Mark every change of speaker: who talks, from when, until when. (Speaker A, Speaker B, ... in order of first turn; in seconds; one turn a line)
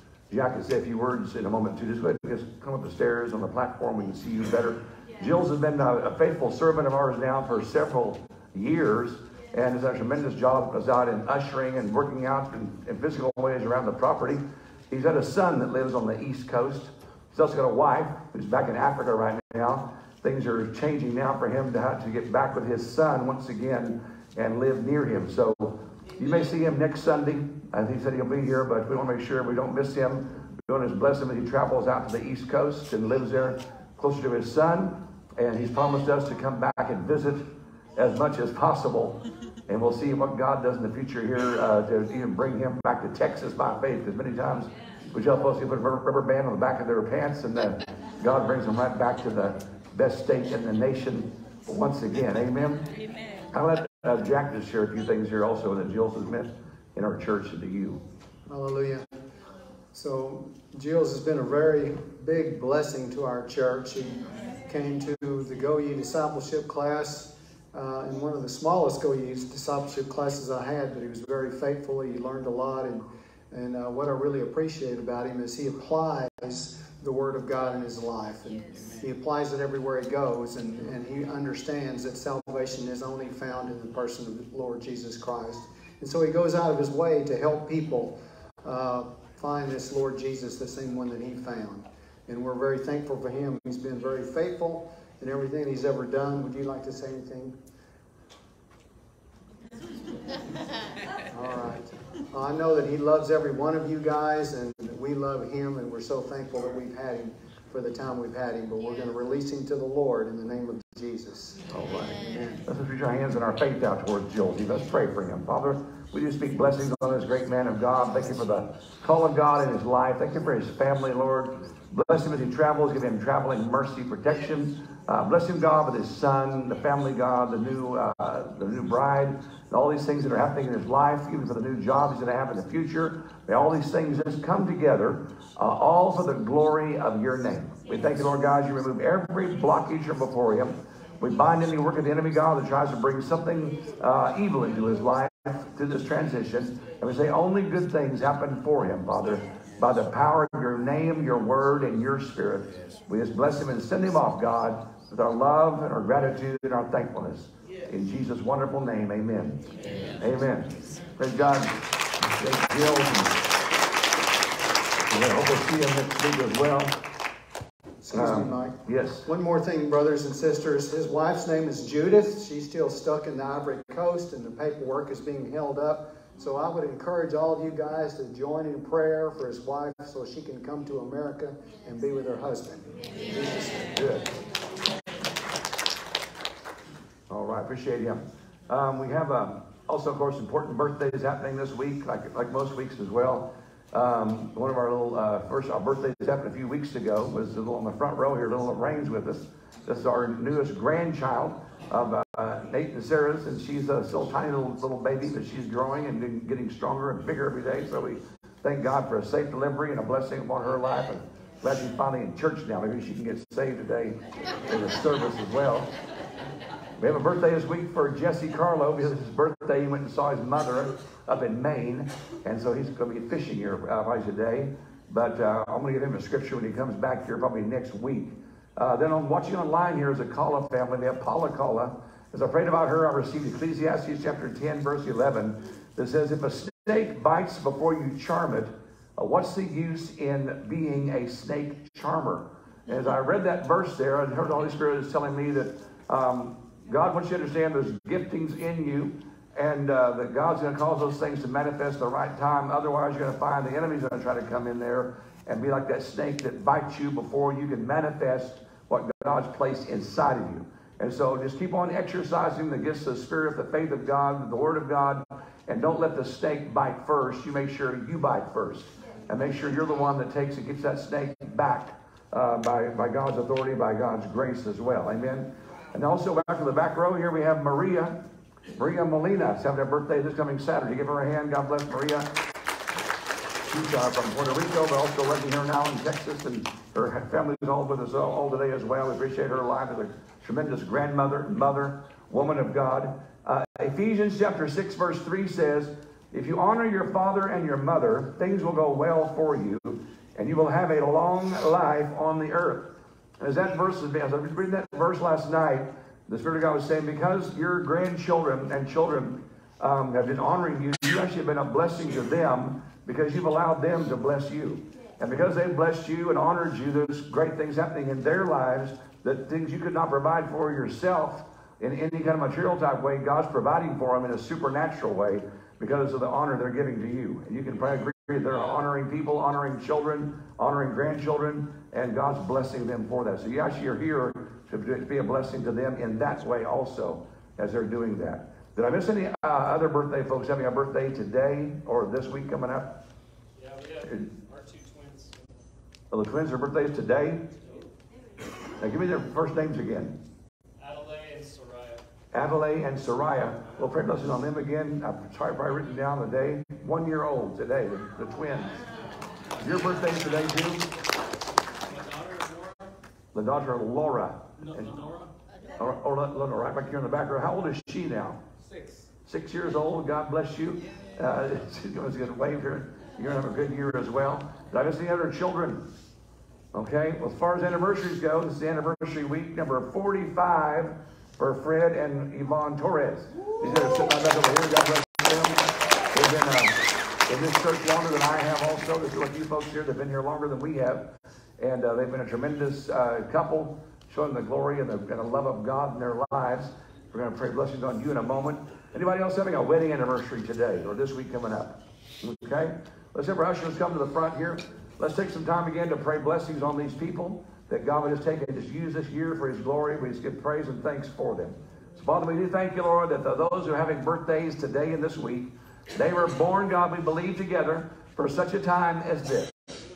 Speaker A: 0.3-37.4
Speaker A: 38.0-52.9
Speaker A: 53.5-58.0
Speaker B: 58.5-59.0
Speaker B: 59.9-97.5
Speaker B: 101.3-111.6
Speaker A: 111.7-159.6
Speaker B: 112.2-112.6
Speaker A: 160.2-161.7
Speaker A: 162.3-163.4
Speaker A: 165.1-166.9
Speaker B: 168.0-182.9
Speaker A: 168.1-169.2
Speaker A: 183.3-184.3
Speaker A: 187.3-215.9
Speaker A: 217.0-278.1
Speaker A: 278.7-282.3
Speaker A: 283.7-342.9
Speaker C: 343.6-345.6
Speaker A: 346.1-347.4
Speaker C: 347.6-347.9
Speaker A: 348.8-350.1
Speaker C: 350.8-352.0
Speaker A: 352.3-358.8
Speaker A: 359.6-360.9
Speaker C: 361.8-362.9
Speaker A: 363.3-365.0
Speaker C: 364.6-365.3
Speaker A: 365.8-368.4
Speaker C: 368.7-369.1
Speaker A: 369.2-375.8
Speaker A: 376.7-385.6
Speaker A: 386.1-419.5